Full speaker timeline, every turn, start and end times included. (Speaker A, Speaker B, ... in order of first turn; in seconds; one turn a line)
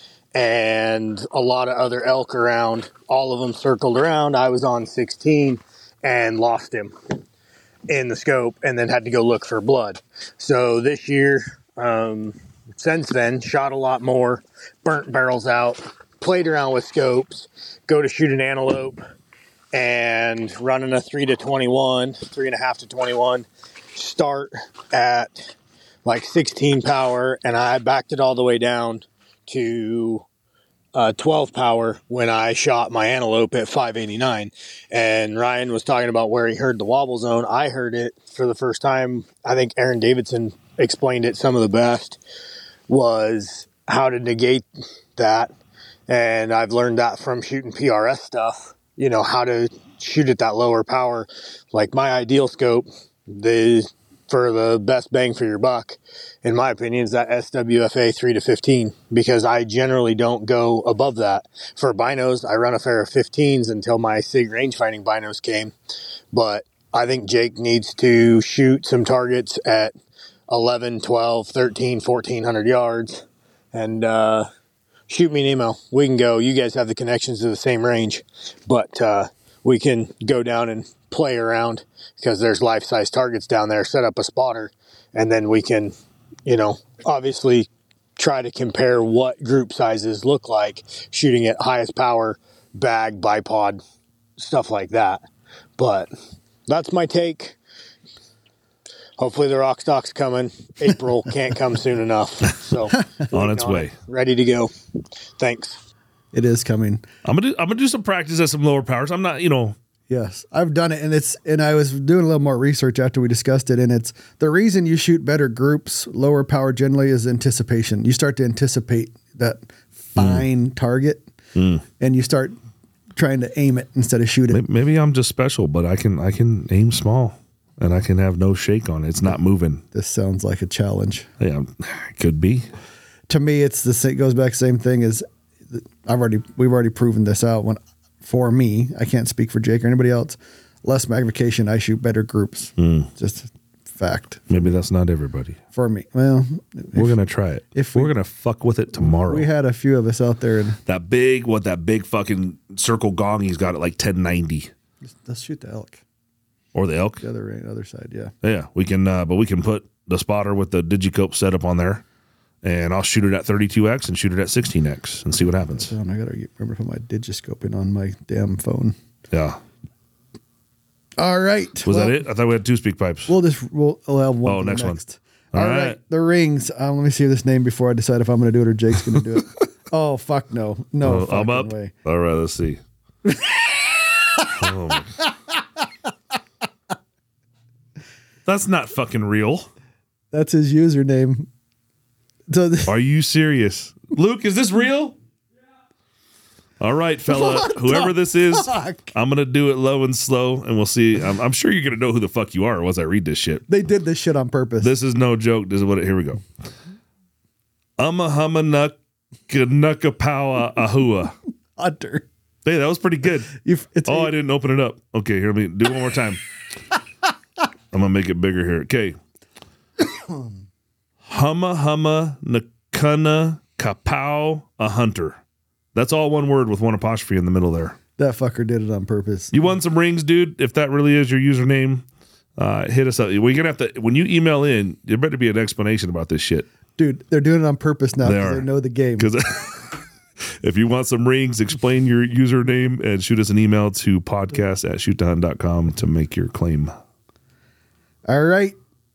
Speaker A: 0.3-6.9
Speaker A: 7.9-19.0
Speaker A: 19.7-30.2
Speaker A: 30.9-42.2
Speaker A: 42.9-44.6
Speaker A: 45.1-45.5
Speaker A: 46.1-65.7
Speaker A: 66.3-69.9
Speaker A: 70.5-74.5
Speaker A: 75.1-85.9
Speaker A: 86.5-93.8
Speaker A: 94.4-95.2
Speaker A: 95.8-96.1
Speaker A: 96.7-97.6
Speaker A: 99.2-104.7
Speaker B: 103.3-103.9
Speaker A: 105.4-105.8
Speaker C: 106.3-107.0
Speaker B: 107.2-109.8
Speaker C: 110.1-121.2
Speaker B: 120.2-120.4
Speaker B: 121.5-121.8
Speaker C: 122.0-122.5
Speaker C: 123.1-124.6
Speaker B: 124.5-129.8
Speaker C: 129.9-131.3
Speaker B: 131.4-132.7
Speaker C: 133.3-144.7
Speaker B: 142.8-143.1
Speaker B: 144.5-145.6
Speaker C: 145.7-147.1
Speaker B: 146.9-149.5
Speaker C: 147.7-148.1
Speaker C: 149.0-150.8
Speaker B: 150.8-154.7
Speaker C: 155.0-156.0
Speaker B: 156.7-157.2
Speaker C: 157.2-158.3
Speaker B: 158.4-162.0
Speaker B: 162.6-165.9
Speaker C: 165.7-168.9
Speaker B: 169.3-169.6
Speaker C: 171.2-172.2
Speaker B: 171.8-173.3
Speaker C: 173.3-181.9
Speaker B: 174.4-175.0
Speaker B: 175.5-176.0
Speaker B: 181.0-182.8
Speaker C: 183.2-184.7
Speaker B: 184.5-185.2
Speaker B: 188.4-189.7
Speaker C: 190.3-191.5
Speaker C: 192.5-192.9
Speaker B: 192.8-195.2
Speaker B: 196.8-203.7
Speaker C: 197.3-199.1
Speaker C: 203.7-204.9
Speaker B: 204.8-206.4
Speaker B: 208.0-209.0
Speaker B: 209.5-211.3
Speaker C: 211.8-212.3
Speaker B: 212.6-213.5
Speaker C: 213.5-214.3
Speaker B: 214.1-216.4
Speaker B: 217.9-219.2
Speaker B: 221.2-225.4
Speaker B: 225.9-228.0
Speaker C: 228.2-229.5
Speaker B: 229.5-232.1
Speaker B: 232.6-236.7
Speaker C: 237.0-239.3
Speaker B: 238.2-240.0
Speaker B: 240.6-246.9
Speaker C: 248.3-248.8